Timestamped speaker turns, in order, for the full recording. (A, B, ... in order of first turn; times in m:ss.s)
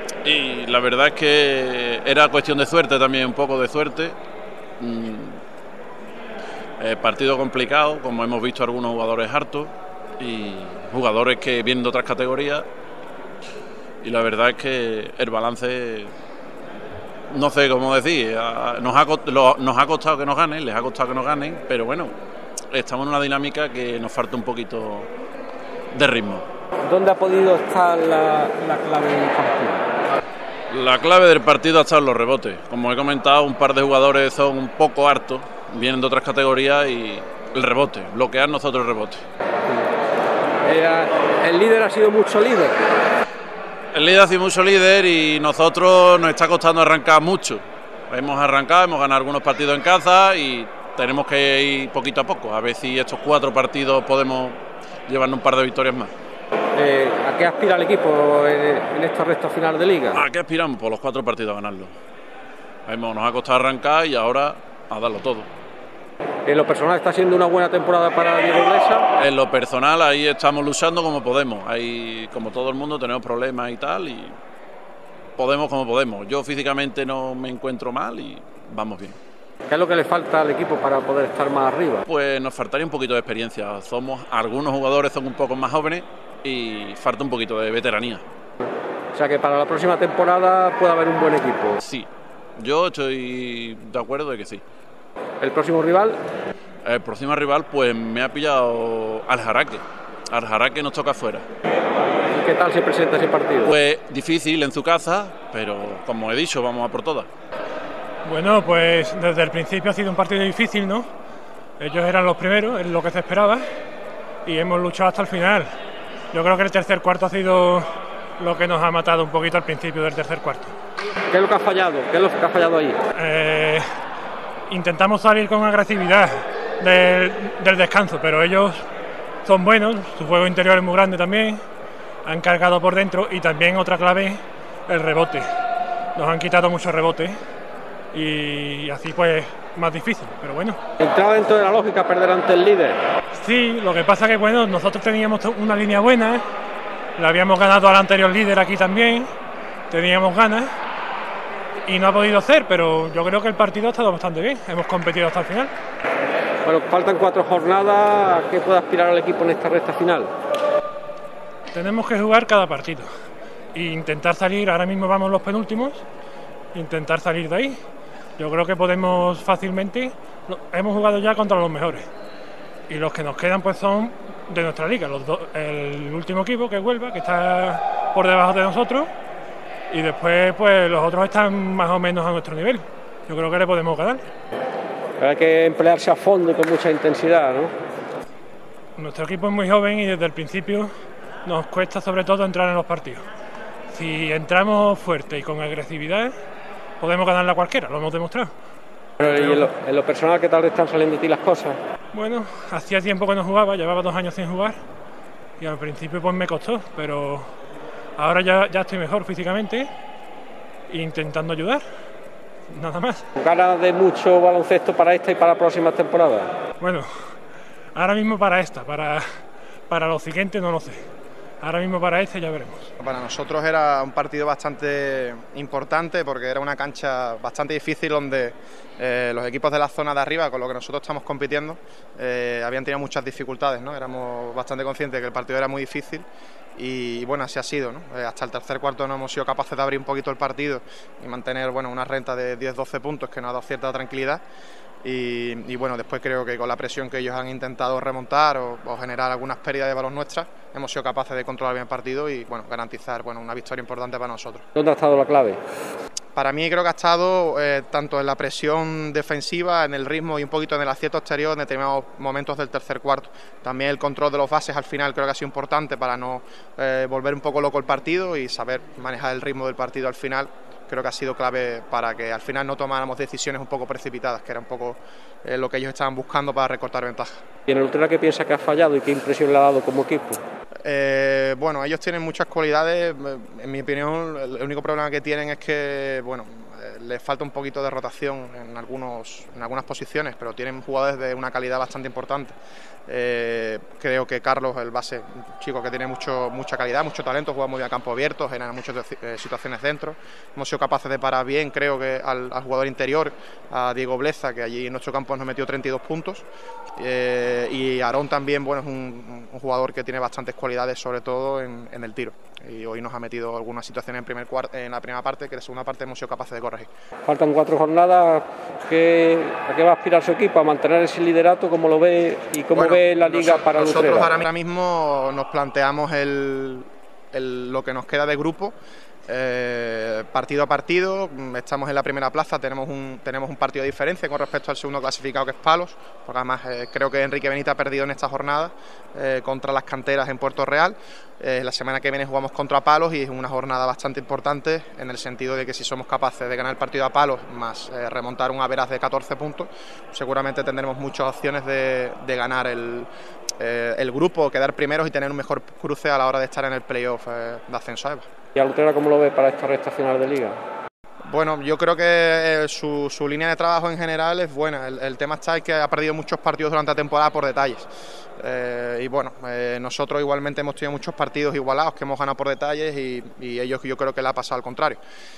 0:00.2-0:04.2 A
0:04.8-0:05.4 A
0:06.8-0:12.6 A
0:14.0-0:16.1 A
0:17.3-0:22.1 A
0:22.7-0:25.1 A
0:25.9-0:26.5 A
0:26.8-0:29.8 B
0:30.7-0:39.2 A
0:40.6-0:42.8 B
0:43.9-0:56.1 A
0:56.8-1:00.2 B
1:00.1-1:01.9 A
1:02.9-1:05.5 A
1:06.4-1:09.1 B
1:09.2-1:14.4 A
1:15.4-1:19.2 A
1:19.7-1:22.0 B
1:22.0-1:28.2 A
1:29.1-1:31.8 B
1:31.8-1:34.6 A
1:35.4-1:36.2 B
1:36.8-1:41.4 A
1:42.3-1:43.8 B
1:43.6-1:47.3 A
1:48.2-1:51.1 C
1:51.8-1:53.6 C
1:54.4-1:55.7 C
1:56.3-2:00.7 C
2:01.3-2:03.0 B
2:03.1-2:03.9 C
2:04.7-2:08.8 C
2:09.4-2:11.6 C
2:12.2-2:15.5 C
2:16.2-2:17.4 C
2:18.1-2:20.8 C
2:21.0-2:23.0 B
2:23.3-2:26.4 C
2:27.2-2:29.3 C
2:29.9-2:30.7 C
2:31.9-2:35.7 C
2:36.6-2:40.3 B
2:41.7-2:43.1 C
2:43.7-2:46.0 C
2:46.7-2:47.8 C
2:48.4-2:52.1 C
2:52.9-2:59.1 C
2:59.9-3:04.2 C
3:05.2-3:07.7 B
3:09.0-3:10.9 C
3:11.4-3:13.2 C
3:13.9-3:16.3 C
3:17.0-3:18.5 C
3:19.2-3:19.7 C
3:19.2-3:21.8 B
3:22.1-3:24.8 C
3:25.6-3:27.5 C
3:28.2-3:29.9 C
3:30.9-3:31.8 C
3:32.7-3:33.3 C
3:33.4-3:36.5 B
3:36.8-3:37.1 C
3:38.0-3:41.0 C
3:41.6-3:42.9 C
3:43.0-4:04.4 D
4:05.0-4:14.7 D
4:14.8-4:15.6 B
4:16.3-4:37.3 D
4:37.7-4:40.4 B
4:40.8-4:52.6 D
4:53.1-5:06.4 D
5:07.0-5:16.9 D
5:17.2-5:24.3 B
5:22.7-5:28.8 D
5:29.3-5:53.1 D
5:53.6-5:58.3 D
5:58.5-6:00.6 B
6:01.3-6:15.0 D